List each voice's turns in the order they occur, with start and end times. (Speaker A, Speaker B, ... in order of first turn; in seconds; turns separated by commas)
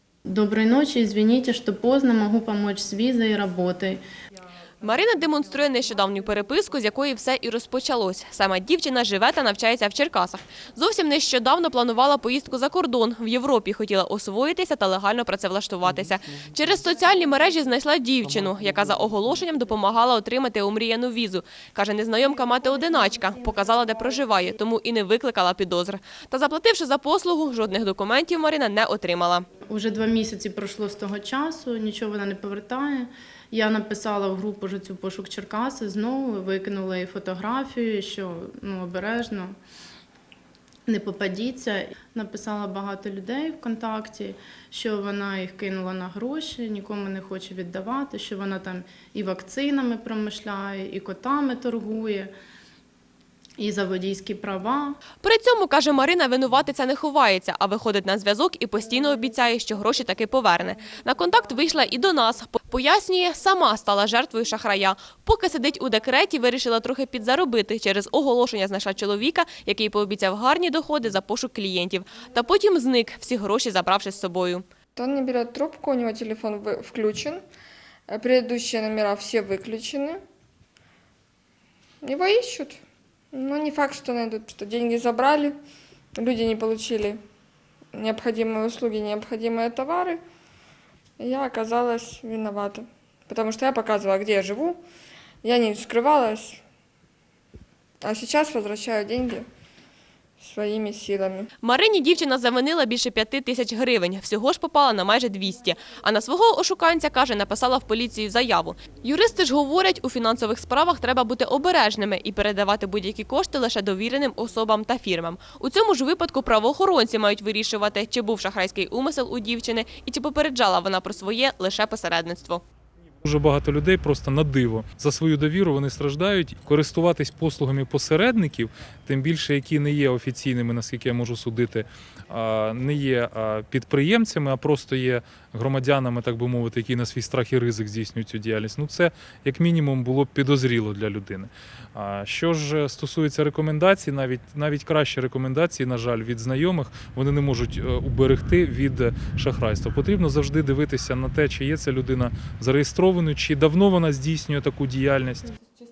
Speaker A: 0.3-4.0, Speaker B: 4.8-29.5, Speaker A: 29.7-39.5, Speaker A: 40.9-52.3, Speaker A: 53.6-55.0, Speaker B: 55.2-74.7, Speaker C: 75.0-77.4, Speaker C: 78.1-80.2, Speaker C: 82.0-82.8, Speaker C: 83.3-85.6, Speaker C: 86.2-87.2, Speaker C: 87.9-90.2, Speaker C: 91.2-94.8, Speaker C: 95.4-96.6, Speaker C: 98.0-99.5, Speaker C: 100.4-101.5, Speaker B: 101.6-122.6, Speaker D: 123.2-155.5